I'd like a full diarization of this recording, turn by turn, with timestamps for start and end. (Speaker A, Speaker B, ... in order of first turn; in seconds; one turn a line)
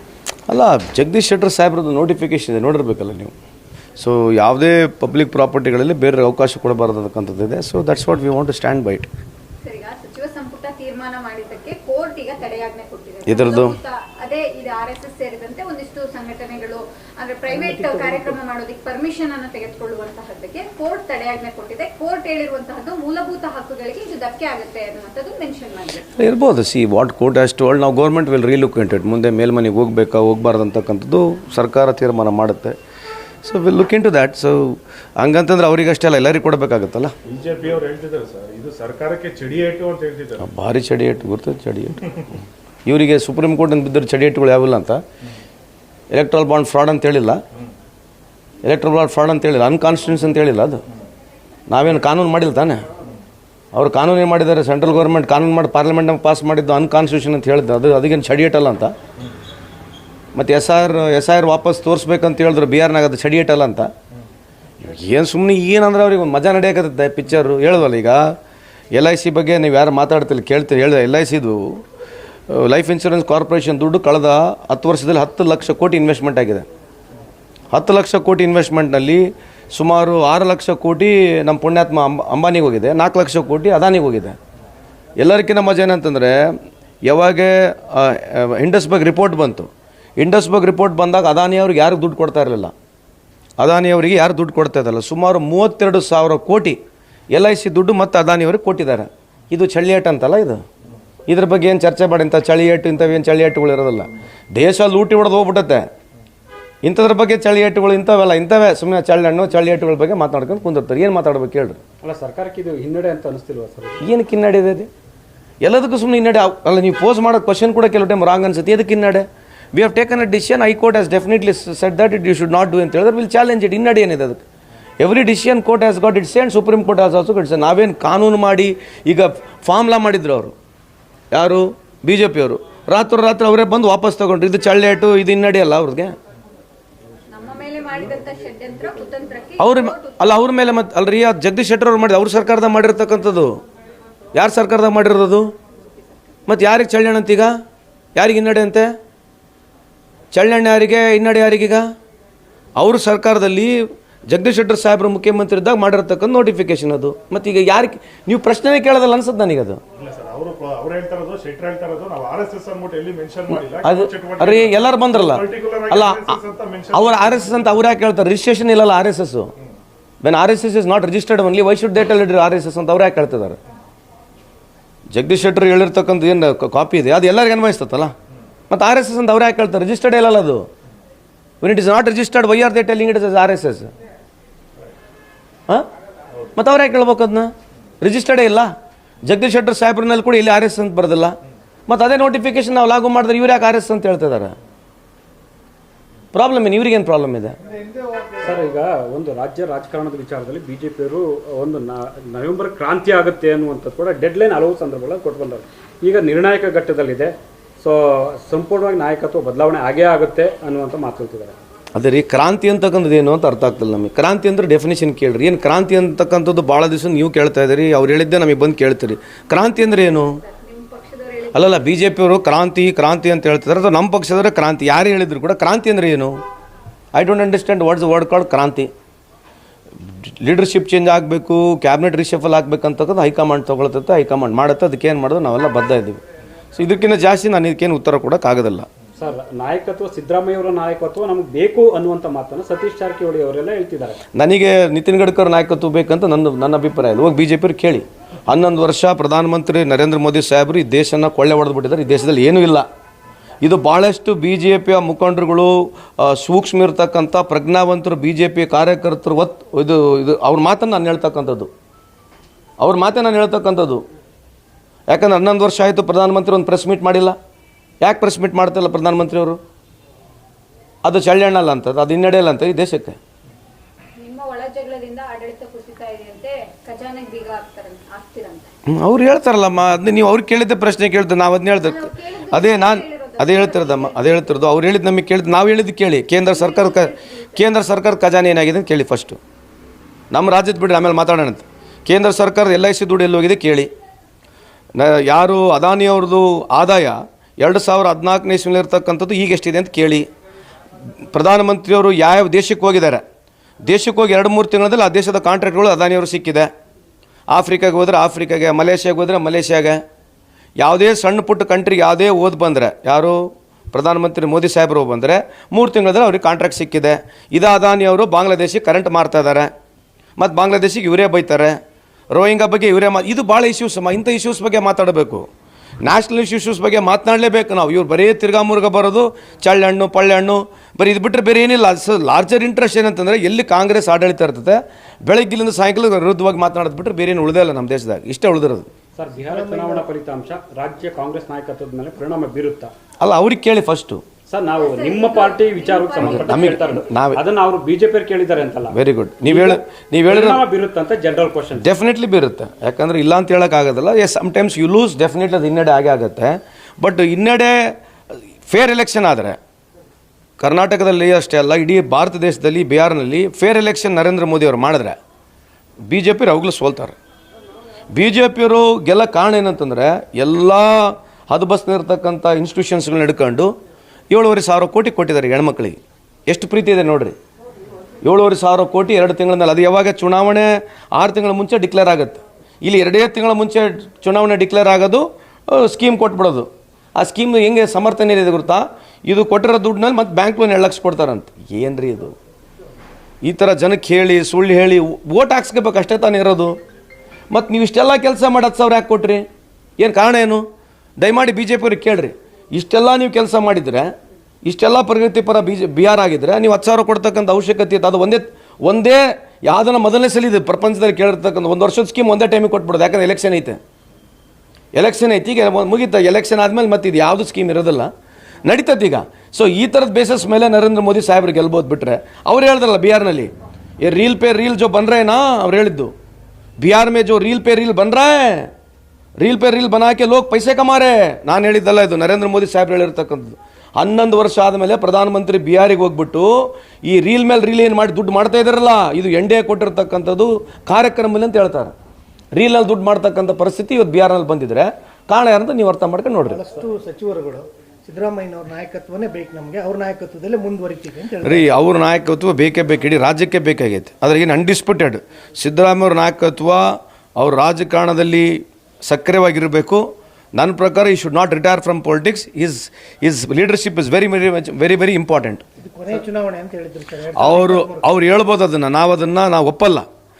Speaker A: 0.5-3.3
Speaker A: 4.0-9.1
Speaker B: 9.6-26.1
Speaker A: 13.3-13.8
Speaker C: 17.5-18.4
Speaker A: 26.2-32.8
Speaker A: 33.4-37.1
Speaker D: 37.3-40.5
Speaker A: 40.4-45.0
Speaker A: 46.1-47.4
Speaker A: 48.6-50.8
Speaker A: 51.7-52.8
Speaker A: 53.7-58.9
Speaker A: 60.4-63.9
Speaker A: 64.8-68.3
Speaker A: 68.9-71.8
Speaker A: 72.5-76.7
Speaker A: 77.7-84.4
Speaker A: 85.2-86.4
Speaker A: 87.0-92.7
Speaker A: 93.6-96.8
Speaker A: 97.3-100.6
Speaker A: 101.3-105.9
Speaker A: 106.8-111.8
Speaker E: 112.0-114.0
Speaker A: 114.0-114.9
Speaker A: 115.6-124.4
Speaker A: 125.0-130.5
Speaker A: 131.3-136.2
Speaker B: 137.3-140.4
Speaker A: 139.6-143.6
Speaker A: 144.3-145.5
Speaker B: 145.8-146.4
Speaker A: 146.5-147.6
Speaker A: 148.2-148.9
Speaker A: 150.3-151.9
Speaker A: 152.8-159.8
Speaker D: 160.0-167.5
Speaker A: 163.8-166.4
Speaker A: 166.9-169.5
Speaker A: 170.2-173.6
Speaker A: 175.1-178.1
Speaker A: 178.7-180.7
Speaker A: 181.6-183.9
Speaker A: 186.6-188.7
Speaker A: 189.2-191.4
Speaker A: 191.9-194.6
Speaker A: 196.3-197.6
Speaker E: 198.4-211.6
Speaker A: 211.9-220.4
Speaker B: 219.5-222.0
Speaker A: 221.5-226.4
Speaker A: 227.1-228.9
Speaker A: 230.1-236.2
Speaker A: 236.7-238.9
Speaker E: 239.2-244.2
Speaker A: 244.4-252.9
Speaker A: 253.6-261.7
Speaker A: 262.8-264.0
Speaker A: 265.1-267.4
Speaker A: 268.0-269.6
Speaker A: 271.0-273.2
Speaker B: 274.2-278.7
Speaker A: 278.9-289.4
Speaker B: 281.8-284.2
Speaker B: 286.5-287.7
Speaker A: 290.3-293.9
Speaker A: 294.9-300.3
Speaker A: 301.3-303.2
Speaker A: 303.8-306.7
Speaker A: 307.5-310.0
Speaker A: 310.8-319.7
Speaker A: 320.4-321.8
Speaker A: 322.3-325.5
Speaker A: 326.0-338.9
Speaker E: 339.2-342.9
Speaker C: 339.5-340.1
Speaker A: 343.2-344.2
Speaker E: 344.5-351.9
Speaker B: 344.7-347.0
Speaker A: 346.2-347.4
Speaker A: 348.9-350.6
Speaker A: 351.8-358.0
Speaker A: 358.7-359.6
Speaker A: 360.6-365.2
Speaker A: 366.1-367.2
Speaker A: 368.1-373.7
Speaker A: 374.3-377.3
Speaker A: 378.2-392.4
Speaker A: 393.4-396.7
Speaker A: 397.5-399.4
Speaker A: 400.0-400.6
Speaker A: 401.2-404.1
Speaker A: 404.6-413.8
Speaker A: 414.9-418.1
Speaker A: 418.6-426.1
Speaker A: 426.8-428.7
Speaker A: 429.4-441.9
Speaker A: 442.5-446.6
Speaker C: 446.5-451.7
Speaker A: 451.4-465.6
Speaker C: 465.8-468.1
Speaker A: 467.4-470.1